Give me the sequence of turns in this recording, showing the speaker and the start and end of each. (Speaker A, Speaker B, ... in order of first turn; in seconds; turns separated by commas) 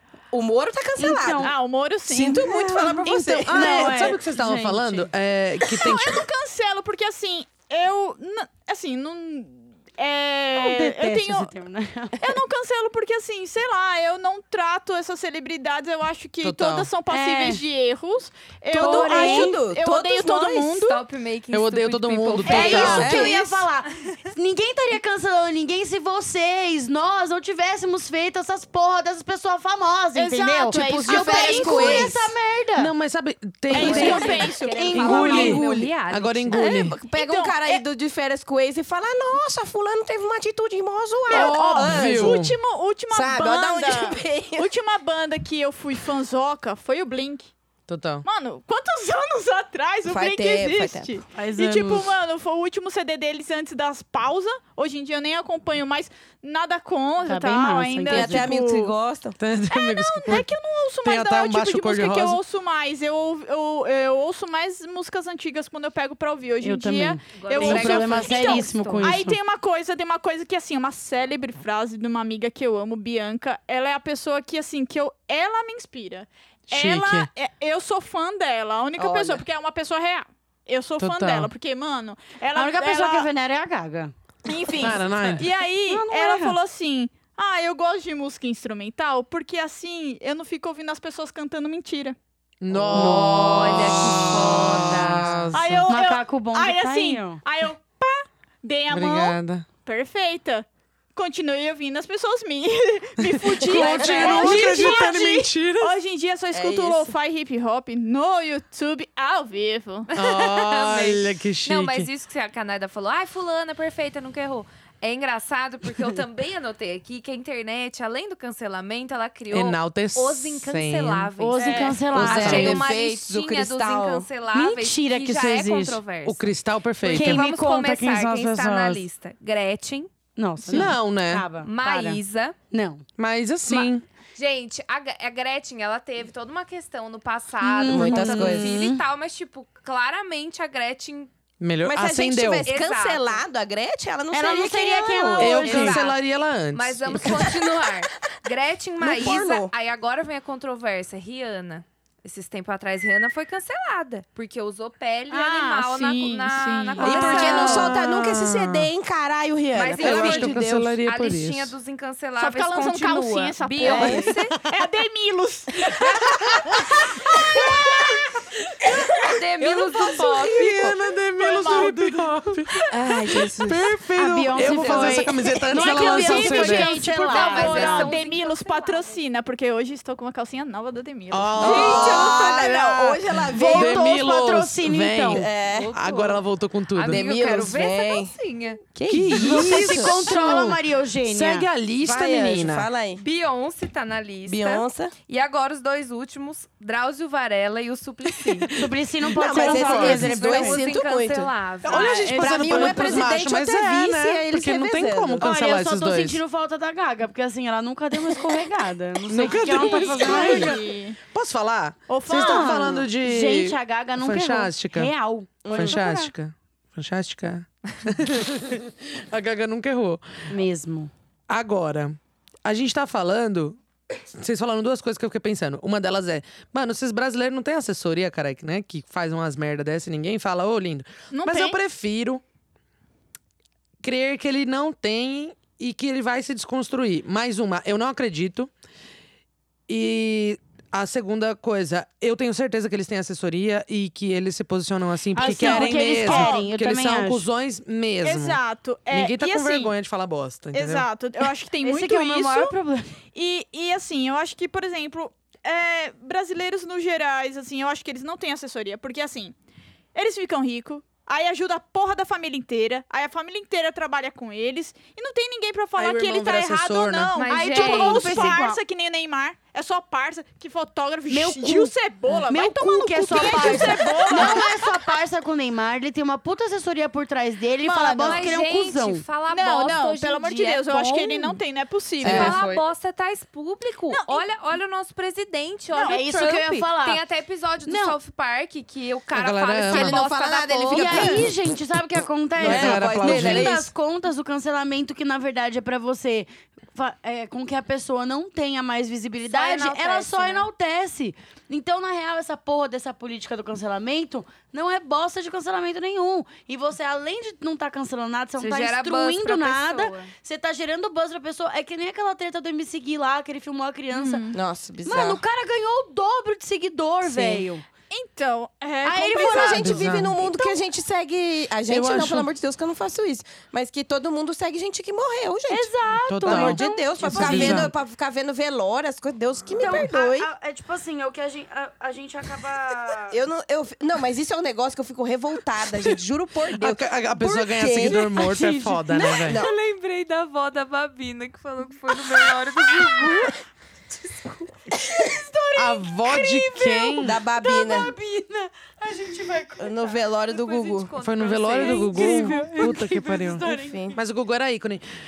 Speaker A: 0.3-1.5, Speaker B: 1.0-1.5, Speaker C: 1.4-2.8, Speaker A: 2.1-4.2, Speaker D: 2.8-6.2, Speaker B: 3.1-5.1, Speaker C: 5.8-11.5, Speaker B: 10.6-12.2, Speaker C: 12.2-21.0, Speaker D: 16.4-16.9, Speaker B: 17.1-17.6, Speaker B: 18.7-19.6, Speaker A: 18.7-20.8, Speaker E: 20.8-23.2, Speaker D: 21.5-23.2, Speaker C: 22.5-23.4, Speaker A: 22.5-23.6, Speaker B: 22.5-32.9, Speaker C: 30.1-32.1, Speaker A: 30.7-32.3, Speaker D: 32.8-34.4, Speaker C: 33.7-35.5, Speaker B: 33.8-35.6, Speaker E: 33.8-36.7, Speaker A: 33.8-35.9, Speaker D: 35.0-37.0, Speaker A: 36.5-42.4, Speaker C: 37.1-37.8, Speaker C: 41.3-47.5, Speaker D: 41.3-42.6, Speaker A: 43.1-44.7, Speaker D: 47.9-48.2, Speaker C: 48.2-58.9, Speaker A: 50.1-51.2, Speaker B: 51.3-52.1, Speaker B: 57.2-58.5, Speaker A: 58.1-59.4, Speaker D: 59.4-60.5, Speaker C: 59.7-83.3, Speaker D: 61.0-62.4, Speaker B: 66.6-69.4, Speaker E: 67.4-69.1, Speaker D: 76.7-77.3, Speaker A: 79.0-79.4, Speaker D: 81.0-81.5, Speaker B: 82.5-86.6, Speaker C: 84.5-92.2, Speaker D: 84.8-85.5, Speaker D: 92.6-95.9, Speaker B: 92.9-93.5, Speaker E: 93.0-95.4, Speaker C: 95.5-110.1, Speaker B: 95.9-97.4, Speaker D: 98.9-99.7, Speaker D: 103.2-106.0, Speaker B: 103.9-104.7, Speaker E: 104.0-104.4, Speaker A: 104.4-104.7, Speaker A: 106.5-107.1, Speaker E: 110.1-126.5, Speaker D: 110.1-112.1, Speaker D: 119.5-121.3, Speaker B: 121.4-122.8, Speaker C: 121.5-122.0, Speaker D: 122.1-122.9, Speaker A: 122.3-124.3, Speaker B: 124.5-126.0, Speaker D: 126.2-127.4, Speaker E: 127.0-130.1, Speaker B: 127.1-129.1, Speaker B: 130.4-132.2, Speaker D: 130.7-131.5, Speaker E: 131.6-132.6, Speaker B: 132.7-133.1, Speaker D: 133.2-134.0, Speaker E: 134.4-141.3, Speaker B: 137.6-139.0, Speaker A: 137.9-138.8, Speaker D: 138.0-138.7, Speaker D: 141.6-142.7, Speaker A: 141.8-145.8, Speaker E: 142.6-143.4, Speaker B: 144.3-146.0, Speaker D: 145.4-147.5, Speaker E: 145.6-146.2, Speaker E: 146.7-158.0, Speaker A: 147.2-148.3, Speaker A: 149.0-149.7, Speaker C: 155.3-157.4, Speaker A: 157.0-160.9, Speaker D: 157.0-158.9, Speaker E: 159.7-164.6, Speaker D: 160.0-161.7, Speaker C: 162.4-166.0, Speaker A: 163.9-164.2, Speaker D: 166.0-167.9, Speaker E: 166.2-166.8, Speaker E: 169.2-170.9, Speaker D: 170.0-177.1, Speaker A: 170.0-170.8, Speaker C: 171.4-172.3, Speaker A: 172.9-173.9, Speaker B: 174.1-178.2, Speaker A: 174.7-175.2, Speaker C: 175.8-182.3, Speaker E: 177.2-179.1, Speaker D: 181.3-187.2, Speaker A: 181.6-184.1, Speaker E: 181.7-182.3, Speaker B: 183.5-185.4, Speaker A: 185.3-185.9, Speaker E: 185.7-186.4, Speaker E: 186.9-188.8, Speaker A: 187.1-188.3, Speaker A: 188.9-190.4, Speaker D: 189.1-192.9, Speaker B: 189.3-191.7, Speaker A: 192.0-193.2, Speaker E: 193.2-198.7, Speaker A: 194.5-195.2, Speaker D: 198.3-200.4, Speaker B: 198.8-200.8, Speaker A: 199.3-201.6, Speaker E: 199.9-202.3, Speaker D: 201.8-206.4, Speaker B: 201.9-203.3, Speaker A: 202.1-205.5, Speaker B: 205.4-210.8, Speaker D: 209.3-215.1, Speaker C: 209.4-211.2, Speaker C: 212.1-213.0, Speaker B: 212.3-216.3, Speaker A: 215.7-216.0, Speaker D: 215.7-220.2, Speaker B: 220.5-221.1, Speaker D: 221.5-223.8, Speaker D: 224.3-232.4, Speaker C: 231.3-231.8, Speaker D: 234.0-238.7, Speaker D: 239.9-251.1, Speaker B: 245.3-247.5, Speaker C: 245.4-246.7, Speaker C: 248.2-249.9, Speaker C: 250.7-252.7, Speaker B: 251.8-253.2, Speaker C: 253.3-259.6, Speaker C: 260.1-275.1, Speaker D: 266.0-267.4, Speaker E: 267.4-268.5, Speaker B: 267.5-268.8, Speaker B: 271.3-279.2, Speaker C: 277.8-278.5, Speaker E: 278.2-280.9, Speaker C: 279.5-282.6, Speaker B: 280.9-281.6, Speaker A: 282.2-282.9, Speaker E: 282.2-291.4, Speaker D: 282.2-282.6, Speaker C: 284.1-284.4, Speaker C: 285.9-286.2, Speaker B: 286.1-287.2, Speaker B: 287.9-288.2, Speaker D: 289.3-290.2, Speaker A: 289.8-291.5, Speaker B: 290.9-314.5, Speaker D: 292.6-293.7, Speaker A: 292.6-293.9, Speaker E: 299.4-300.7, Speaker E: 308.6-310.3, Speaker C: 314.1-314.6, Speaker A: 314.5-315.4, Speaker B: 315.1-317.8, Speaker A: 317.2-317.7, Speaker C: 318.1-320.1, Speaker A: 319.1-325.9, Speaker B: 319.1-319.7, Speaker D: 319.7-320.4, Speaker D: 321.9-322.5, Speaker B: 325.7-327.9, Speaker D: 326.3-327.9, Speaker A: 326.4-330.5, Speaker B: 329.8-333.4, Speaker A: 333.3-338.5, Speaker D: 336.8-339.6, Speaker E: 338.7-343.6, Speaker A: 339.4-339.7, Speaker B: 344.9-350.2, Speaker D: 345.8-347.4, Speaker A: 347.2-348.1, Speaker A: 349.8-351.1, Speaker E: 350.5-352.7, Speaker D: 351.2-355.0, Speaker B: 351.8-354.2, Speaker A: 353.6-354.2